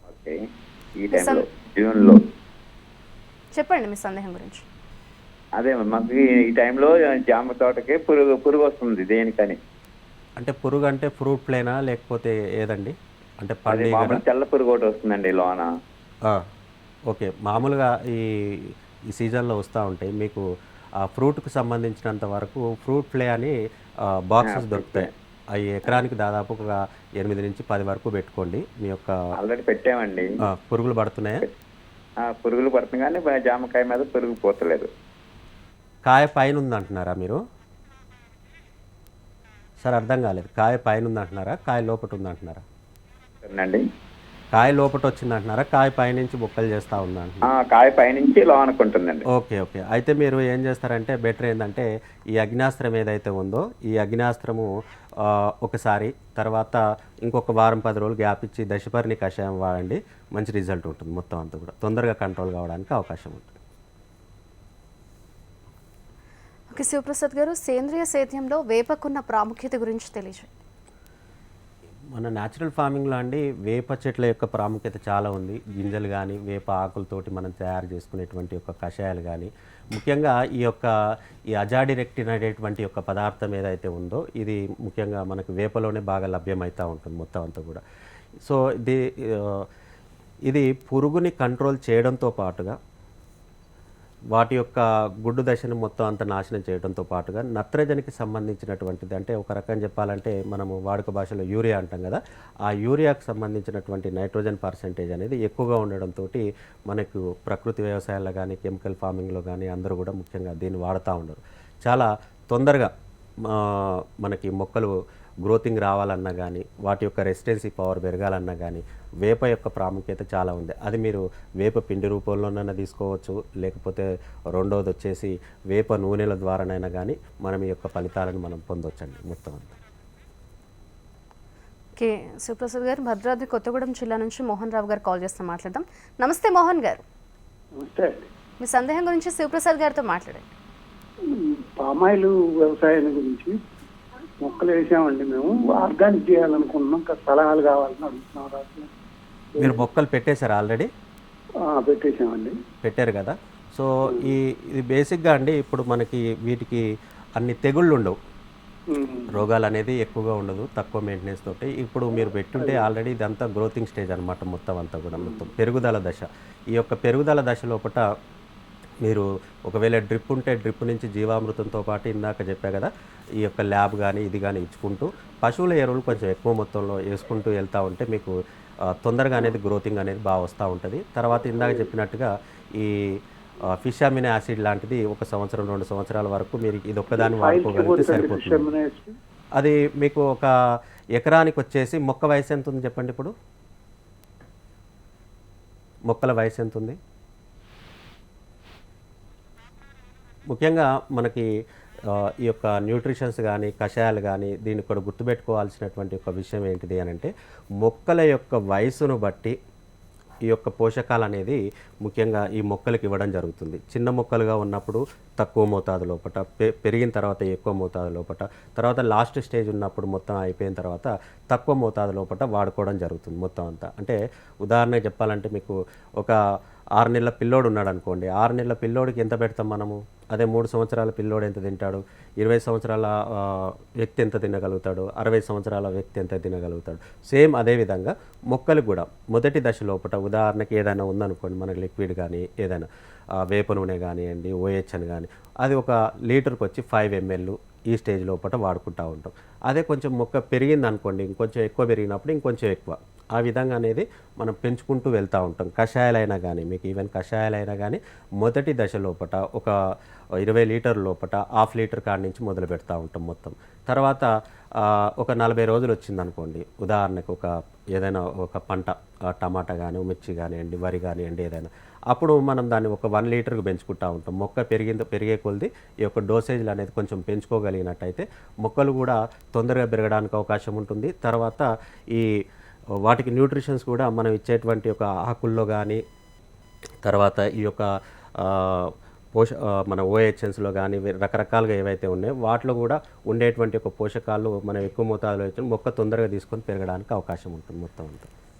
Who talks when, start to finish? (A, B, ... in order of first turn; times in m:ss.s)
0:01.0-0:02.2 A
0:01.1-0:01.4 B
0:03.6-0:04.6 B
0:05.6-0:09.6 A
0:10.4-0:14.2 C
0:13.7-0:15.7 A
0:17.1-0:20.5 C
0:21.0-0:23.6 C
0:24.1-0:29.2 C
0:24.4-0:25.1 A
0:29.4-0:30.3 A
0:30.4-0:31.4 C
0:32.2-0:34.9 A
0:36.1-0:37.4 C
0:39.8-0:42.6 C
0:43.4-0:43.8 A
0:44.5-0:47.5 C
0:47.5-0:49.2 A
0:49.3-0:54.7 C
0:55.2-1:03.5 C
1:06.7-1:10.6 B
1:12.2-1:20.9 C
1:21.5-1:27.8 C
1:28.4-1:29.7 C
1:30.5-1:32.8 C
1:34.3-1:52.9 C
1:53.4-2:09.7 C
2:12.0-2:17.0 B
2:17.8-2:18.3 D
2:18.6-2:20.5 B
2:21.3-2:23.5 D
2:24.4-2:28.9 D
2:29.6-2:29.8 D
2:29.6-2:30.9 C
2:31.7-2:32.6 D
2:32.8-2:36.8 C
2:37.4-2:38.2 C
2:38.9-2:39.4 D
2:39.3-2:48.0 C
2:42.6-2:42.9 D
2:49.1-2:52.9 C
2:53.4-2:58.4 C
2:58.9-3:03.0 C
3:03.7-3:08.7 C
3:07.2-3:09.2 D
3:09.6-3:10.5 C
3:11.2-3:13.3 C
3:16.1-3:17.0 C
3:20.5-3:21.5 C
3:22.1-3:29.6 C
3:30.5-3:46.4 C
3:47.0-4:02.9 C
4:03.4-4:19.7 C
4:20.4-4:24.3 C
4:24.8-4:42.3 C
4:43.0-4:46.0 C
4:47.0-4:58.3 C